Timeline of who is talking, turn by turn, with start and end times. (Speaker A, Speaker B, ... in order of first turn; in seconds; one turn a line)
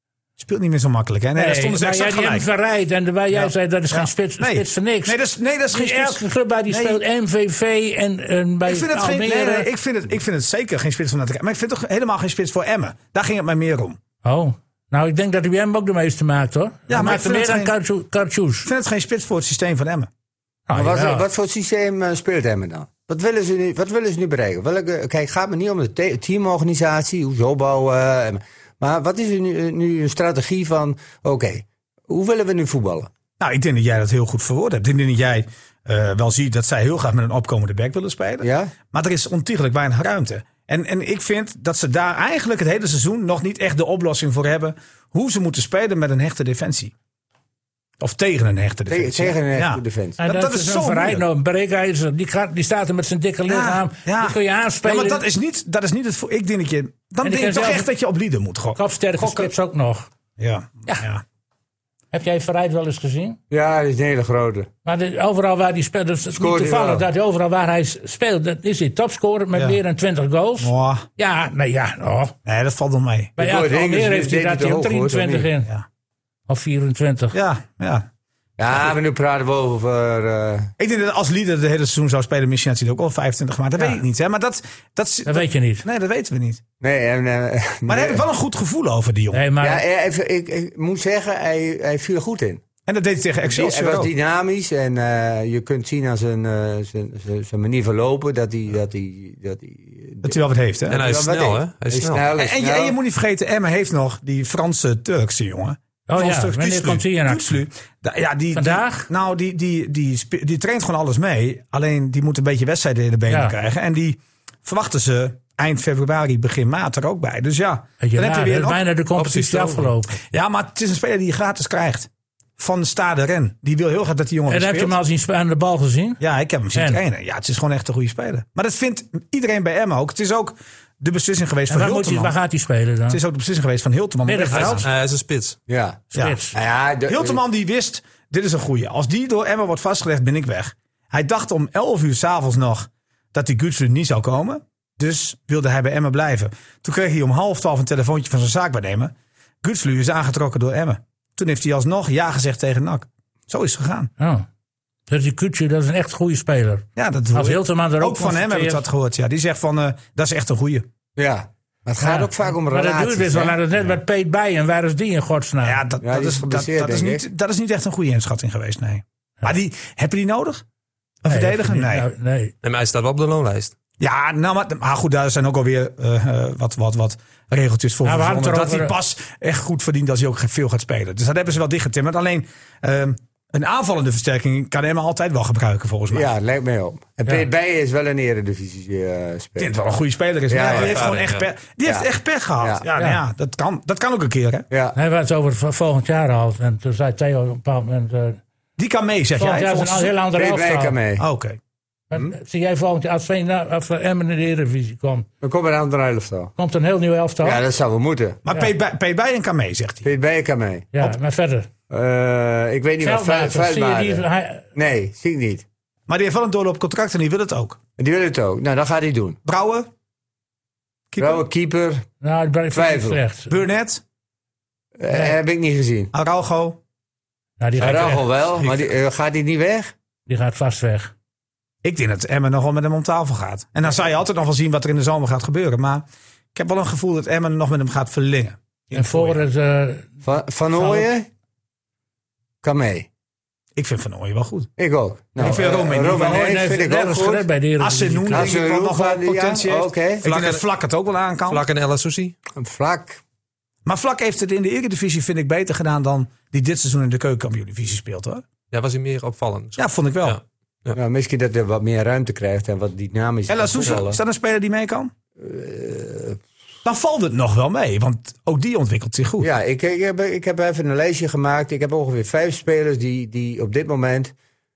Speaker A: 0.4-2.5
Speaker B: 1.3-5.2
Speaker A: 3.3-7.0
Speaker B: 5.7-9.7
Speaker A: 8.6-14.0
Speaker B: 14.2-18.7
Speaker A: 16.9-17.7
Speaker A: 18.6-20.1
Speaker B: 20.7-21.2
Speaker C: 20.7-33.1
Speaker A: 33.4-46.9
Speaker C: 38.4-38.7
Speaker A: 48.0-51.2
Speaker C: 48.9-50.2
Speaker B: 50.2-55.2
Speaker A: 53.5-59.5
Speaker B: 57.2-57.9
Speaker B: 58.8-60.1
Speaker A: 60.4-61.2
Speaker B: 62.1-63.4
Speaker C: 63.5-64.7
Speaker B: 64.8-72.3
Speaker C: 66.3-67.0
Speaker A: 70.6-71.0
Speaker A: 72.5-73.3
Speaker B: 73.4-75.7
Speaker C: 73.4-75.5
Speaker B: 76.5-77.4
Speaker A: 77.3-78.1
Speaker C: 78.6-80.7
Speaker A: 80.8-86.6
Speaker B: 85.2-85.8
Speaker C: 86.8-88.2
Speaker A: 87.9-89.5
Speaker B: 89.3-89.8
Speaker C: 89.6-92.6
Speaker A: 92.9-94.1
Speaker C: 93.4-100.4
Speaker A: 100.2-101.0
Speaker D: 100.9-102.2
Speaker C: 100.9-102.9
Speaker A: 102.3-119.0
Speaker B: 106.1-107.6
Speaker B: 108.5-109.1
Speaker B: 113.3-113.5
Speaker B: 118.0-120.2
Speaker D: 119.2-119.7
Speaker A: 120.2-125.0
Speaker B: 124.5-126.2
Speaker A: 126.2-132.3
Speaker B: 126.7-127.0
Speaker B: 131.7-133.2
Speaker A: 133.1-134.9
Speaker B: 134.2-134.8
Speaker D: 134.5-135.6
Speaker C: 135.7-137.4
Speaker A: 136.1-136.4
Speaker B: 136.1-136.5
Speaker A: 137.1-154.1
Speaker B: 154.2-154.4
Speaker B: 155.1-158.8
Speaker A: 156.9-160.8
Speaker C: 161.2-163.6
Speaker B: 162.0-165.8
Speaker A: 165.6-170.6
Speaker C: 166.0-167.2
Speaker A: 171.2-172.1
Speaker B: 171.3-172.5
Speaker D: 172.6-173.8
Speaker A: 174.0-186.3
Speaker B: 178.0-178.9
Speaker C: 186.1-189.7
Speaker A: 189.6-194.6
Speaker C: 190.5-191.1
Speaker D: 190.7-191.4
Speaker B: 192.9-193.2
Speaker C: 194.7-195.0
Speaker B: 194.9-198.4
Speaker A: 198.8-200.1
Speaker B: 199.3-201.0
Speaker C: 200.3-201.2
Speaker A: 201.2-201.6
Speaker B: 202.1-205.2
Speaker C: 205.4-206.5
Speaker B: 206.6-207.6
Speaker C: 207.4-208.4
Speaker A: 208.4-210.1
Speaker C: 210.0-210.9
Speaker B: 210.9-211.7
Speaker C: 211.9-214.2
Speaker B: 213.0-214.6
Speaker C: 214.7-215.6
Speaker A: 216.1-217.8
Speaker C: 218.0-219.4
Speaker A: 219.4-219.9
Speaker A: 221.1-221.4
Speaker C: 221.2-222.0
Speaker B: 222.2-223.5
Speaker C: 222.7-223.2
Speaker A: 223.5-224.0
Speaker C: 225.0-226.1
Speaker B: 225.1-225.3
Speaker A: 226.1-226.8
Speaker B: 227.6-228.2
Speaker C: 227.8-229.9
Speaker B: 230.3-231.1
Speaker A: 231.8-236.0
Speaker A: 236.5-239.4
Speaker B: 238.9-240.1
Speaker C: 240.2-241.3
Speaker B: 240.7-241.1
Speaker C: 242.6-243.1
Speaker A: 243.8-244.7
Speaker C: 244.8-247.4
Speaker A: 245.4-246.6
Speaker B: 245.4-248.5
Speaker A: 247.8-251.6
Speaker C: 248.3-250.2
Speaker D: 250.2-250.6
Speaker D: 251.5-252.3
Speaker C: 252.6-253.2
Speaker A: 253.8-258.4
Speaker D: 258.7-261.0
Speaker A: 259.8-260.4
Speaker C: 260.9-264.2
Speaker A: 263.5-265.1
Speaker C: 265.4-266.4
Speaker A: 266.8-269.5
Speaker C: 269.4-274.3